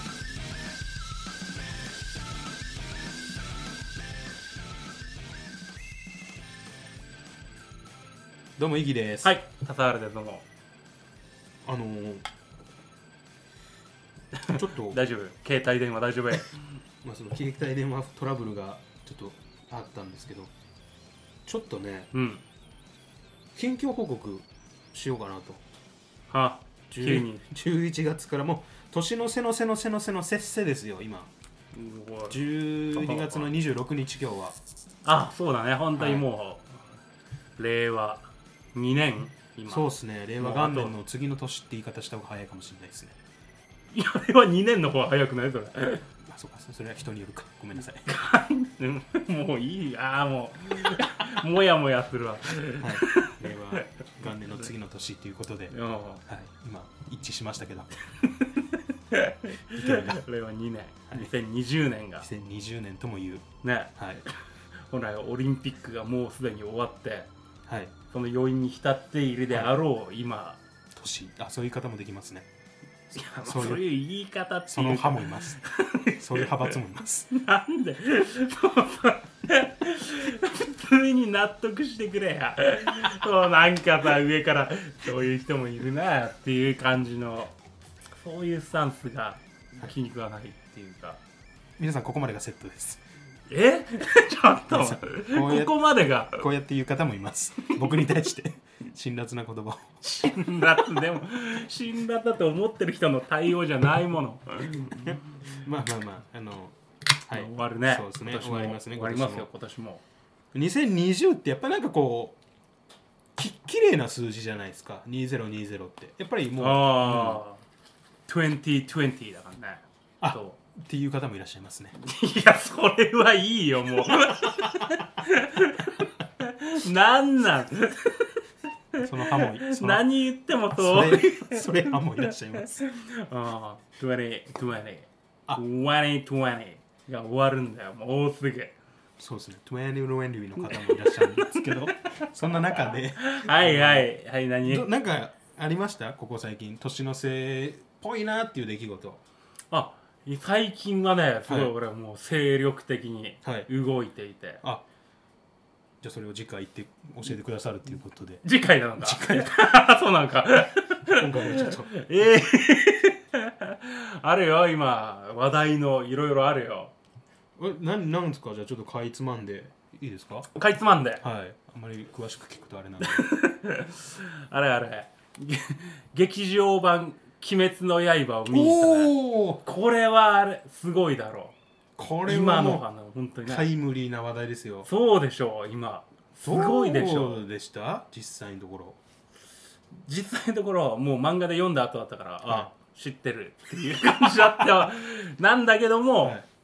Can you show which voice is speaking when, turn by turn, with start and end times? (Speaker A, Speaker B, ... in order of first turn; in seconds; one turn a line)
Speaker A: 8.6-9.4
Speaker B: 9.2-10.4
Speaker A: 11.7-12.2
Speaker B: 14.4-16.5
Speaker A: 14.5-15.0
Speaker A: 17.0-20.5
Speaker A: 21.5-22.1
Speaker B: 22.1-22.4
Speaker A: 23.5-25.6
Speaker B: 26.3-27.4
Speaker A: 26.9-31.3
Speaker B: 31.7-33.5
Speaker A: 32.3-34.6
Speaker B: 35.0-36.8
Speaker A: 36.0-36.3
Speaker B: 37.6-40.9
Speaker A: 39.7-43.2
Speaker B: 43.9-46.0
Speaker A: 46.2-48.1
Speaker B: 48.1-53.9
Speaker A: 52.8-55.7
Speaker B: 55.7-56.2
Speaker A: 56.3-57.9
Speaker B: 58.2-62.3
Speaker A: 59.7-60.2
Speaker A: 62.2-64.2
Speaker B: 63.6-64.3
Speaker B: 64.9-67.3
Speaker A: 67.7-67.9
Speaker B: 68.1-70.6
Speaker A: 70.9-72.5
Speaker A: 73.1-73.9
Speaker B: 73.2-76.8
Speaker A: 74.7-75.6
Speaker A: 76.2-77.3
Speaker B: 77.3-87.5
Speaker B: 88.2-91.2
Speaker A: 91.8-93.0
Speaker B: 93.5-96.4
Speaker A: 94.7-100.0
Speaker B: 100.0-105.2
Speaker A: 104.9-109.5
Speaker B: 107.3-110.0
Speaker A: 110.5-112.4
Speaker A: 113.4-117.4
Speaker B: 116.6-117.6
Speaker B: 118.3-120.6
Speaker A: 120.2-122.0
Speaker B: 122.0-128.4
Speaker B: 128.9-138.8
Speaker A: 129.0-130.1
Speaker A: 130.8-132.8
Speaker A: 139.2-144.1
Speaker B: 140.7-142.3
Speaker B: 143.2-144.9
Speaker A: 144.6-149.2
Speaker B: 149.7-154.6
Speaker A: 151.5-151.7
Speaker A: 153.4-153.7
Speaker A: 156.0-158.4
Speaker B: 158.4-166.9
Speaker A: 159.0-159.6
Speaker A: 161.1-162.0
Speaker A: 167.6-170.5
Speaker B: 170.6-171.2
Speaker A: 171.2-173.3
Speaker B: 173.0-181.6
Speaker A: 178.5-179.6
Speaker A: 182.0-182.8
Speaker B: 182.3-183.7
Speaker A: 183.5-184.9
Speaker B: 184.9-187.4
Speaker A: 186.4-189.0
Speaker B: 190.0-196.4
Speaker A: 194.4-194.9
Speaker A: 196.2-196.5